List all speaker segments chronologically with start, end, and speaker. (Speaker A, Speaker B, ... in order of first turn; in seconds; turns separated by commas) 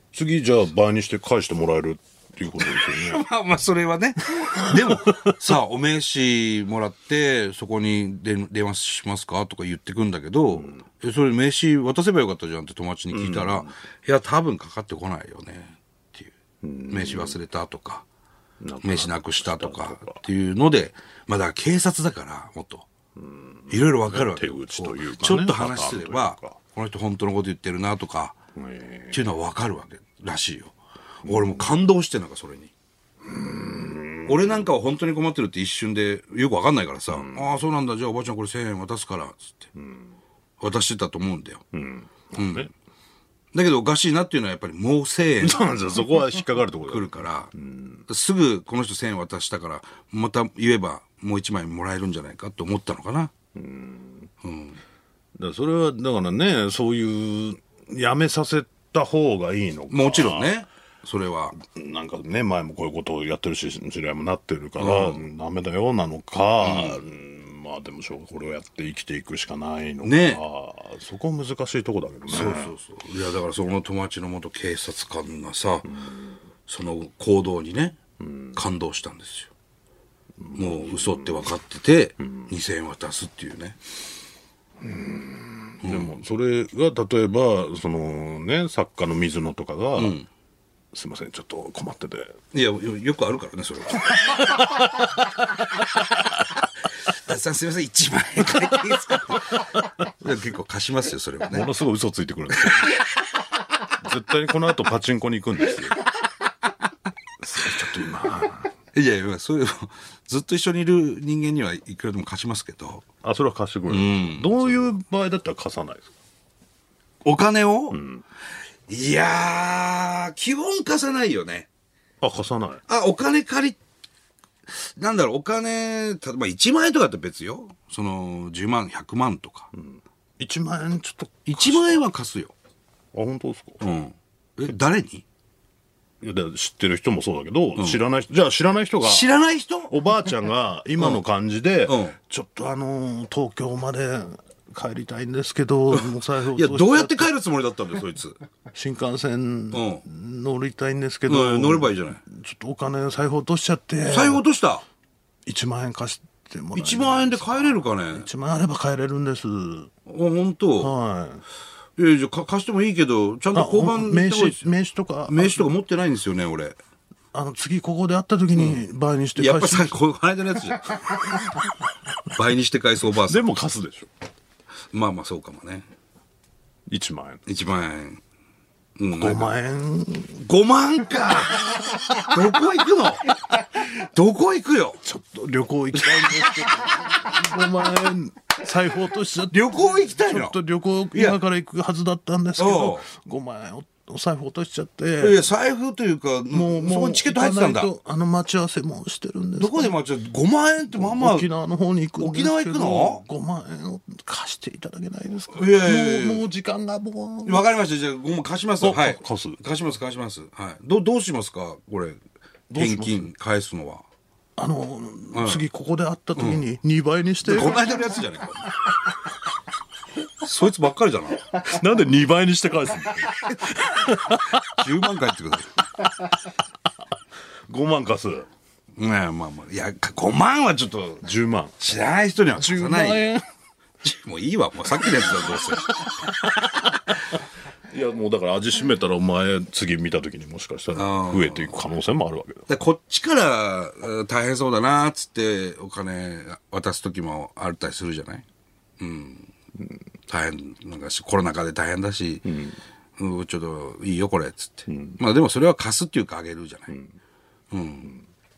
Speaker A: 0.1-3.2, Speaker B: 2.6-16.3, Speaker A: 4.6-5.3, Speaker A: 13.1-13.7, Speaker A: 16.6-17.4, Speaker B: 16.9-18.0, Speaker A: 18.6-20.2, Speaker B: 18.8-22.9, Speaker A: 23.2-26.6, Speaker B: 23.7-28.4, Speaker A: 28.6-29.3, Speaker B: 29.1-32.7, Speaker A: 31.2-31.7, Speaker A: 33.2-34.7, Speaker B: 34.2-39.7, Speaker A: 37.1-37.6, Speaker A: 39.8-40.1, Speaker B: 40.6-41.6, Speaker A: 41.7-42.7, Speaker B: 42.4-42.7, Speaker B: 43.5-45.6, Speaker A: 45.4-48.0, Speaker B: 46.9-47.5, Speaker B: 48.1-53.3, Speaker A: 53.6-54.3, Speaker B: 54.4-54.8, Speaker A: 55.4-60.6, Speaker B: 59.9-61.6, Speaker A: 61.6-72.7, Speaker B: 64.8-65.2, Speaker B: 66.6-67.0, Speaker B: 70.0-70.4, Speaker B: 72.3-76.0, Speaker A: 75.9-76.2, Speaker B: 76.7-78.0, Speaker A: 78.2-78.6, Speaker B: 78.5-79.5, Speaker A: 80.4-81.5, Speaker B: 80.5-83.8, Speaker A: 84.8-90.2, Speaker B: 85.8-86.1, Speaker B: 90.0-90.3, Speaker A: 90.9-92.3, Speaker B: 92.5-94.6, Speaker B: 97.1-101.7, Speaker A: 101.5-102.9, Speaker A: 104.0-106.0, Speaker A: 107.4-108.7, Speaker B: 108.9-113.0, Speaker A: 113.2-116.1, Speaker B: 113.9-114.9, Speaker B: 117.2-118.0, Speaker A: 117.9-118.2, Speaker B: 118.9-121.7, Speaker A: 122.2-122.8, Speaker B: 122.9-123.8, Speaker B: 124.7-129.7, Speaker A: 129.7-132.0, Speaker B: 131.5-132.5, Speaker A: 133.1-133.8, Speaker B: 133.8-135.2, Speaker A: 136.2-139.3, Speaker B: 137.8-138.0, Speaker B: 139.0-139.9, Speaker A: 139.9-147.3, Speaker B: 141.9-142.2, Speaker B: 145.9-148.4, Speaker A: 148.7-154.4, Speaker B: 149.7-150.0, Speaker B: 151.3-152.2, Speaker B: 154.0-154.8, Speaker A: 155.5-159.9, Speaker B: 156.8-158.3, Speaker B: 160.1-160.9, Speaker A: 160.8-161.4, Speaker B: 162.0-164.7, Speaker A: 163.5-165.8, Speaker B: 165.3-166.8, Speaker A: 167.3-170.0, Speaker B: 168.5-168.8, Speaker B: 169.4-171.4, Speaker B: 172.3-173.5, Speaker A: 173.2-174.1, Speaker B: 174.9-175.9, Speaker A: 176.9-177.4, Speaker B: 177.5-178.2, Speaker B: 179.0-179.5, Speaker A: 179.1-180.4, Speaker B: 180.4-185.0, Speaker A: 185.0-195.5, Speaker B: 186.0-186.7, Speaker B: 189.5-190.6, Speaker B: 191.1-191.4, Speaker B: 192.6-193.1, Speaker B: 195.2-197.9, Speaker A: 196.5-200.0, Speaker B: 199.6-201.5, Speaker A: 200.9-207.7, Speaker B: 202.2-203.2, Speaker B: 205.5-206.4, Speaker B: 207.4-212.2, Speaker A: 208.8-209.6, Speaker A: 212.7-213.3, Speaker B: 212.7-214.0, Speaker A: 214.6-218.0, Speaker B: 215.3-215.6, Speaker B: 216.4-216.6, Speaker B: 217.4-218.7, Speaker B: 220.4-221.5, Speaker A: 221.6-224.9, Speaker B: 224.7-225.8, Speaker A: 227.7-228.5, Speaker B: 229.0-231.3, Speaker A: 231.2-231.8, Speaker B: 231.8-233.3, Speaker A: 232.6-233.5, Speaker B: 234.0-236.1, Speaker A: 235.0-242.7, Speaker B: 240.9-241.7, Speaker B: 242.7-248.4, Speaker B: 249.0-249.5, Speaker B: 250.3-252.6, Speaker A: 252.4-252.8, Speaker B: 253.2-256.9, Speaker A: 254.9-255.2, Speaker B: 257.7-258.2